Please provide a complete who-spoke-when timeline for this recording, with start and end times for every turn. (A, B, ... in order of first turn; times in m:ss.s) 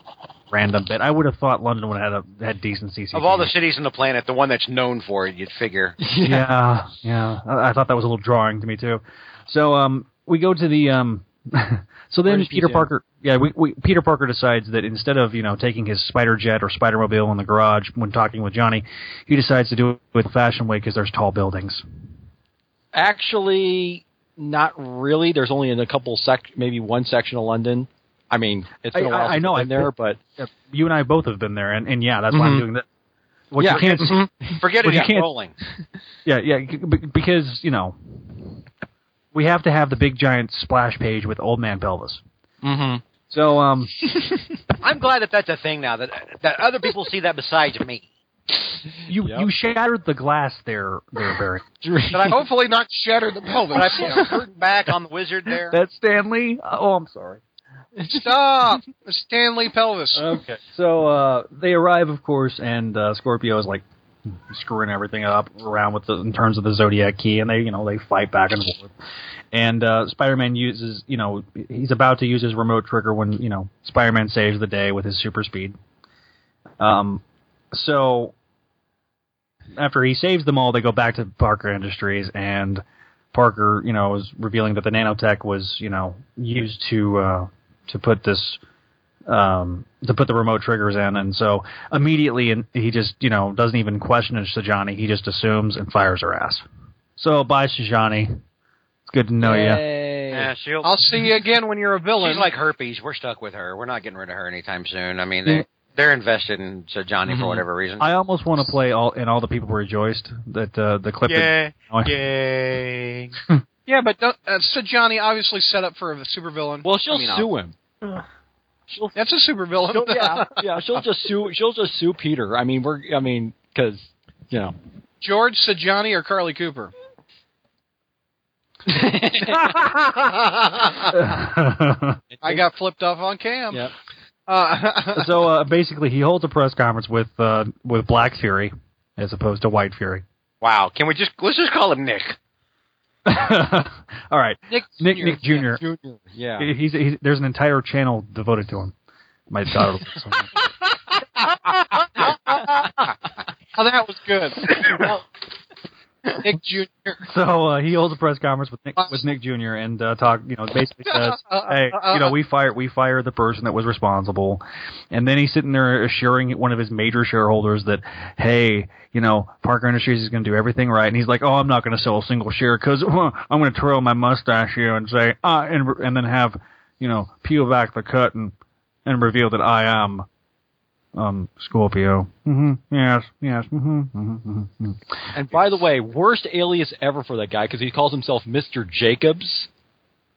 0:00.5-0:03.5 A
0:03.1-0:06.0 B
0:06.0-0:06.5 C
0:06.2-0:21.8 A
0:12.2-0:12.9 C
0:22.9-0:30.2 C
0:28.9-0:32.8 A
0:32.3-0:32.6 C
0:33.5-0:34.2 A
0:33.6-0:34.6 C
0:33.6-0:35.5 B
0:34.8-0:35.3 A
0:36.2-0:38.5 A
0:39.3-0:42.2 A
0:42.6-0:43.0 C
0:43.3-0:43.9 A
0:44.8-0:48.1 B
0:49.1-0:51.6 A
0:49.2-0:49.5 C
0:51.8-0:52.4 C
0:52.1-0:52.4 B
0:52.3-0:54.4 D
0:53.7-0:55.7 B
0:55.7-0:57.4 A
0:58.0-0:58.3 C
0:58.1-1:00.3 D
1:00.1-1:03.8 A
1:04.5-1:08.9 A
1:09.5-1:15.8 A
1:16.8-1:17.2 A
1:17.7-1:18.3 A
1:19.7-1:28.6 A
1:29.3-1:36.6 A
1:37.2-1:38.4 A
1:39.1-1:39.8 A
1:39.4-1:40.5 C
1:40.3-1:41.0 B
1:40.8-1:42.5 D
1:42.2-1:48.0 B
1:47.3-1:47.6 C
1:48.0-1:52.2 A
1:51.3-1:53.3 B
1:53.9-1:57.5 D
1:56.8-1:57.7 C
1:58.9-1:59.2 C
1:59.1-2:00.6 D
1:59.9-2:04.7 C
2:05.2-2:06.9 D
2:11.1-2:12.2 A
2:12.3-2:12.6 C
2:12.4-2:13.8 D
2:14.5-2:15.3 D
2:15.1-2:20.2 A
2:20.6-2:22.4 B
2:23.2-2:25.8 A
2:24.7-2:25.5 D
2:25.6-2:26.7 C
2:26.6-2:28.9 A
2:29.5-2:30.6 A
2:31.7-2:32.9 D
2:33.8-2:35.1 D
2:36.3-2:37.2 D
2:37.2-3:00.3 A
2:41.0-2:42.4 D
3:01.1-3:05.8 A
3:05.3-3:09.7 C